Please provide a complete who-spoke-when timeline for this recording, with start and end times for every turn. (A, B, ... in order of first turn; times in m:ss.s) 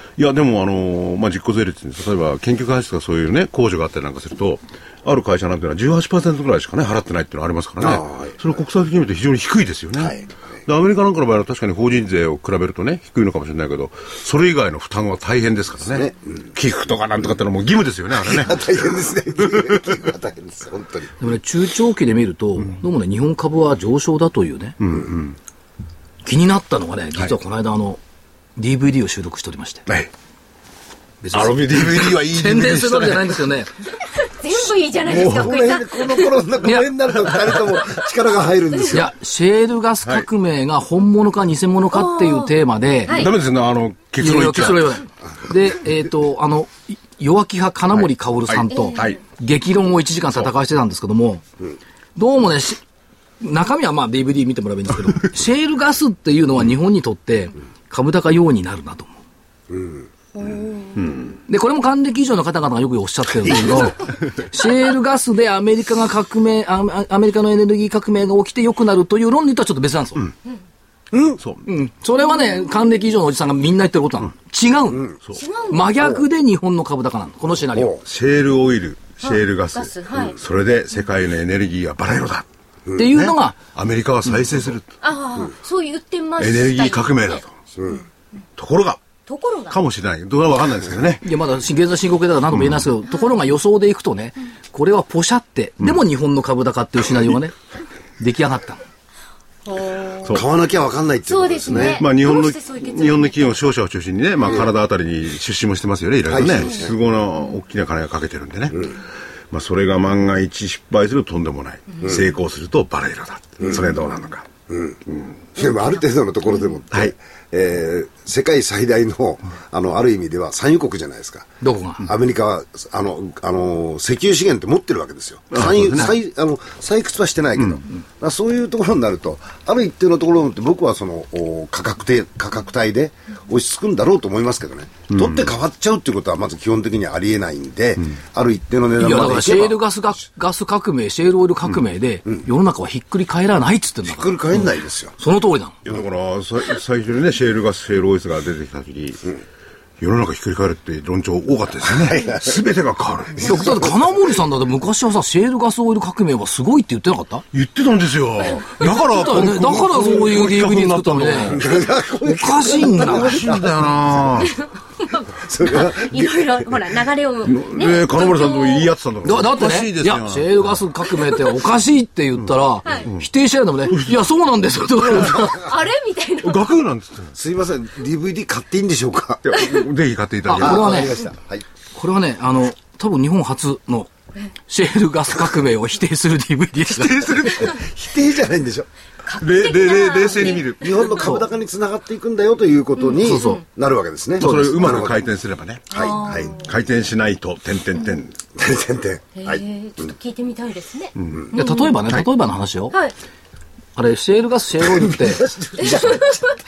0:00.2-0:18.6 A
0:07.8-0:08.3 B
0:15.8-0:16.4 B
0:18.3-0:21.1 B
0:19.5-0:19.8 A
0:21.2-0:24.8 C
0:24.8-0:25.4 A
0:26.2-0:28.0 C
0:28.6-0:29.8 C
0:31.2-0:33.7 C
0:31.3-0:33.2 A
0:32.0-0:32.6 B
0:34.2-0:36.4 D
0:35.0-0:39.1 B
0:36.6-0:37.3 C
0:38.9-0:43.3 C
0:41.9-0:42.5 D
0:43.1-0:43.3 D
0:43.1-0:44.9 A
0:44.2-0:51.4 C
0:48.5-0:49.2 A
0:48.7-0:49.1 D
0:52.2-0:52.8 C
0:53.4-0:59.2 C
0:59.7-1:00.1 B
1:00.4-1:01.2 D
1:01.0-1:01.4 A
1:01.5-1:10.2 C
1:11.1-1:11.4 B
1:11.4-1:11.7 A
1:11.7-1:15.1 C
1:15.4-1:15.9 D
1:15.7-1:18.0 C
1:17.7-1:18.0 B
1:18.0-1:22.5 A
1:19.2-1:20.4 D
1:23.0-1:23.6 C
1:23.0-1:24.9 A
1:25.0-1:27.4 D
1:26.4-1:27.5 A
1:27.8-1:28.0 B
1:28.6-1:29.0 A
1:29.3-1:29.8 D
1:29.7-1:31.2 A
1:31.2-1:37.6 C
1:38.2-1:38.8 C
1:39.7-1:40.4 D
1:40.3-1:42.1 B
1:41.3-1:43.7 D
1:41.7-1:49.0 A
1:46.3-1:47.0 B
1:49.5-1:54.5 A
1:53.6-1:53.9 B
1:54.7-1:55.0 B
1:55.1-1:55.4 A
1:55.6-2:01.5 B
2:01.6-2:02.0 C
2:02.0-2:19.8 B
2:05.5-2:06.2 A
2:15.1-2:15.5 A
2:19.0-2:25.8 C
2:24.0-2:25.2 B
2:25.8-2:29.3 A
2:30.0-2:33.5 A
2:31.8-2:32.6 B
2:33.4-2:33.9 B
2:33.4-2:37.4 C
2:37.5-2:41.7 A
2:38.8-2:41.6 C
2:41.5-2:44.5 B
2:42.2-2:43.4 C
2:43.1-2:44.6 A
2:45.0-2:48.9 D
2:45.4-2:46.6 B
2:47.4-2:50.8 A
2:49.2-2:55.7 C
2:53.9-2:54.2 A
2:55.5-2:56.6 D
2:56.4-2:57.4 A
2:57.4-2:59.8 B
2:59.4-3:01.2 A
3:00.5-3:01.2 C
3:00.6-3:01.6 B
3:02.0-3:04.1 C
3:04.7-3:07.8 C
3:07.0-3:07.7 A
3:07.6-3:08.9 B
3:09.2-3:11.1 D
3:09.4-3:11.2 A
3:10.8-3:15.3 B
3:11.2-3:11.5 C
3:13.0-3:13.6 D
3:13.2-3:13.6 C
3:14.4-3:15.0 C
3:14.4-3:18.4 A
3:15.9-3:16.6 B
3:15.9-3:16.8 D
3:18.6-3:20.1 B
3:19.4-3:21.9 D
3:21.2-3:21.5 A
3:21.6-3:23.0 C
3:24.0-3:26.3 C
3:24.9-3:26.3 B
3:26.0-3:26.4 D